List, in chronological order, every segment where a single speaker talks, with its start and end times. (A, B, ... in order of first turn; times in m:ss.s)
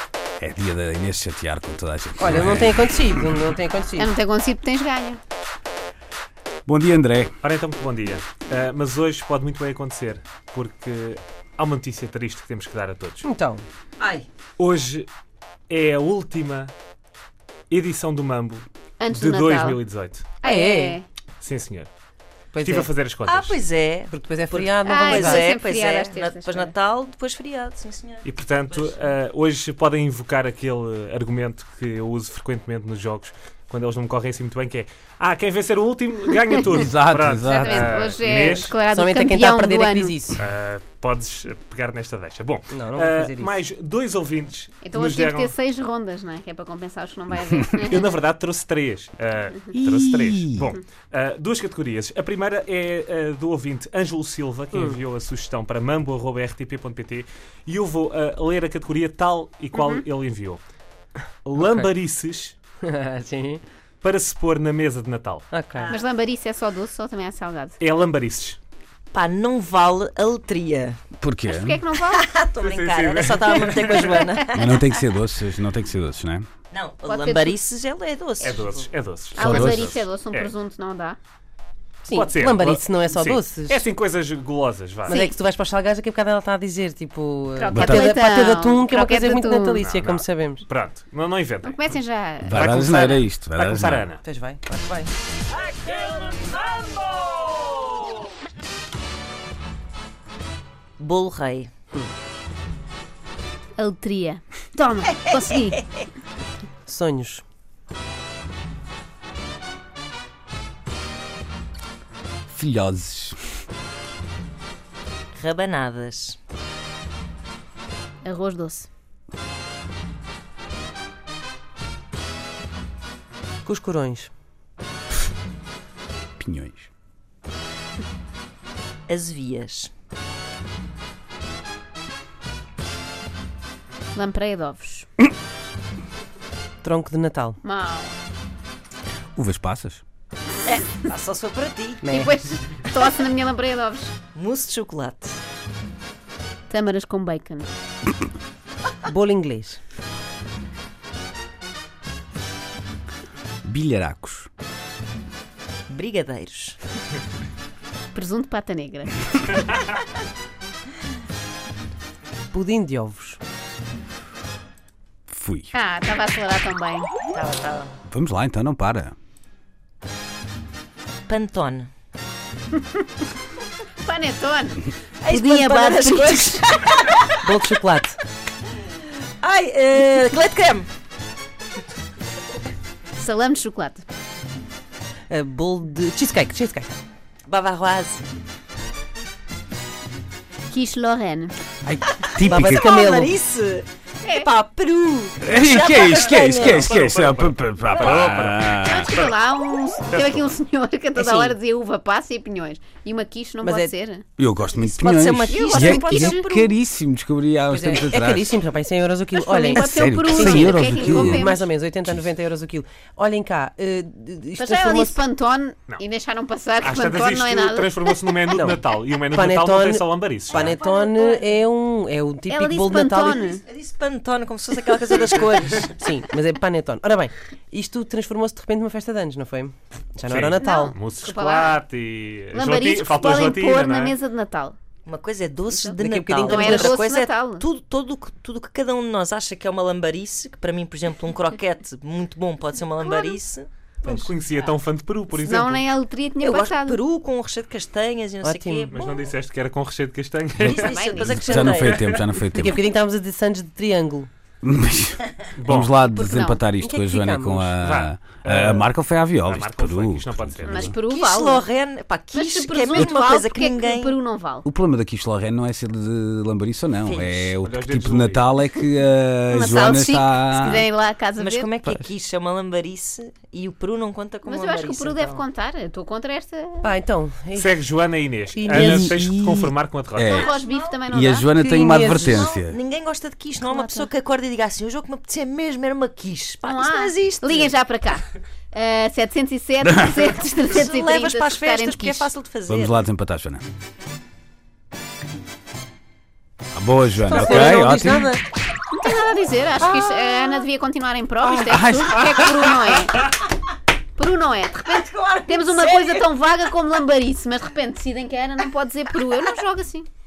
0:00.4-0:03.4 A
0:02.2-0:04.1 B
0:04.0-0:05.2 C
0:06.7-0:07.3 A
0:07.4-0:13.2 D
0:13.2-0:13.6 B
0:14.0-0:14.3 E
0:14.6-0:15.1 D
0:15.7-0:16.7 D
0:17.7-0:20.3 D
0:19.0-0:19.8 C
0:20.4-0:21.0 C
0:20.4-0:21.0 B
0:21.4-0:21.9 D
0:22.5-0:22.9 B
0:22.6-0:23.6 D
0:23.2-0:29.0 E
0:24.1-0:25.5 B
0:24.8-0:26.7 C
0:28.2-0:38.8 D
0:36.7-0:38.0 A
0:37.5-0:40.2 C
0:38.9-0:40.4 B
0:40.4-0:45.5 D
0:42.7-0:43.6 B
0:44.8-0:48.1 C
0:47.8-1:00.6 D
0:49.8-0:50.7 A
0:54.7-0:55.0 B
0:59.7-1:00.0 C
1:01.4-1:02.6 D
1:01.6-1:01.9 B
1:02.8-1:03.6 B
1:04.0-1:05.5 D
1:05.5-1:05.9 B
1:05.8-1:06.0 E
1:05.9-1:07.8 C
1:07.8-1:08.6 D
1:09.1-1:11.0 E
1:11.2-1:11.8 A
1:11.5-1:12.3 C
1:12.1-1:15.0 E
1:12.6-1:14.3 D
1:14.6-1:16.5 A
1:16.7-1:18.9 E
1:17.0-1:17.6 C
1:18.4-1:20.5 D
1:19.4-1:20.0 A
1:19.4-1:21.2 C
1:22.0-1:23.8 B
1:22.1-1:25.2 D
1:25.1-1:30.6 B
1:25.1-1:25.4 C
1:27.5-1:29.8 C
1:27.7-1:28.1 A
1:29.8-1:31.8 D
1:31.6-1:32.7 C
1:32.4-1:34.1 A
1:32.5-1:34.2 D
1:34.2-1:35.1 B
1:41.0-1:41.7 E
1:43.8-1:45.9 C
1:46.9-1:47.4 B
1:52.5-1:53.4 A
1:55.3-1:56.4 E
1:58.2-1:58.9 C
2:03.6-2:04.3 B
2:06.4-2:06.9 A
2:09.1-2:09.9 E
2:14.1-2:15.1 C
2:16.8-2:17.6 B
2:17.6-2:18.2 C
2:19.4-2:20.0 A
2:20.7-2:22.0 E
2:22.0-2:22.3 B
2:22.1-2:24.1 C
2:24.4-2:25.4 E
2:26.7-2:27.7 C
2:29.0-2:29.8 B
2:33.6-2:34.5 A
2:35.9-2:36.8 E
2:38.1-2:39.6 C
2:42.5-2:43.4 B
2:45.3-2:45.7 A
2:45.7-2:47.1 C
2:47.3-2:47.9 E
2:48.1-2:49.1 A
2:51.3-2:51.9 E
2:54.0-2:56.6 C
2:55.2-2:57.8 E
2:57.4-2:58.2 B
2:59.4-3:00.9 E
3:03.2-3:04.0 C
3:05.3-3:07.0 B
3:07.5-3:08.3 E
3:10.7-3:11.5 C
3:11.8-3:13.0 A
3:12.4-3:17.0 E
3:12.5-3:13.3 B
3:14.2-3:14.5 C
3:15.4-3:19.1 A
3:16.4-3:19.4 D
3:18.8-3:24.2 C
3:20.1-3:20.5 D
3:21.2-3:21.6 E
3:23.6-3:23.9 B
3:24.4-3:28.5 A
3:24.8-3:26.7 E
3:25.5-3:26.5 C
3:27.7-3:35.2 B
3:29.4-3:31.6 C
3:29.7-3:31.5 A
3:34.6-3:38.2 C
3:36.8-3:40.8 D
3:39.3-3:43.4 B
3:42.5-3:43.6 C
3:43.5-3:45.9 E
3:45.9-3:51.0 B
3:50.3-3:54.2 D
3:50.6-3:51.8 C
3:52.5-3:54.8 C
3:55.1-4:03.7 E
3:55.7-3:57.6 C
3:56.0-3:57.0 B
4:03.0-4:03.4 C
4:04.0-4:05.8 D
4:05.3-4:07.0 C
4:06.4-4:09.0 E
4:08.4-4:09.3 B
4:08.9-4:11.0 D
4:10.6-4:12.0 E
4:10.8-4:11.8 C
4:11.2-4:12.8 A
4:11.7-4:12.3 D
4:12.5-4:14.3 B
4:14.6-4:21.0 A
4:15.6-4:15.9 D
4:16.1-4:16.6 C
4:16.8-4:17.8 B
4:17.8-4:20.9 D
4:20.7-4:21.7 C
4:21.1-4:24.2 E
4:22.3-4:24.6 C
4:24.6-4:30.9 A
4:27.0-4:27.6 E
4:27.6-4:28.5 D
4:29.5-4:31.7 C
4:31.4-4:35.5 E
4:31.8-4:32.1 A
4:34.4-4:36.9 C
4:36.8-4:37.8 B
4:37.6-4:40.4 D
4:38.5-4:39.1 B
4:38.7-4:40.5 A
4:40.3-4:41.0 E
4:40.3-4:41.5 C
4:41.1-4:42.8 A
4:41.6-4:42.5 B
4:42.1-4:47.7 E
4:43.6-4:44.1 C
4:46.6-4:52.3 C
4:49.9-4:50.2 A
4:50.7-4:53.1 E
4:52.7-4:53.6 A
4:56.8-4:58.3 A
4:57.2-4:58.4 B
4:58.9-5:03.3 C
4:59.8-5:00.6 B
5:01.5-5:02.6 A
5:04.2-5:10.1 C
5:04.9-5:06.3 E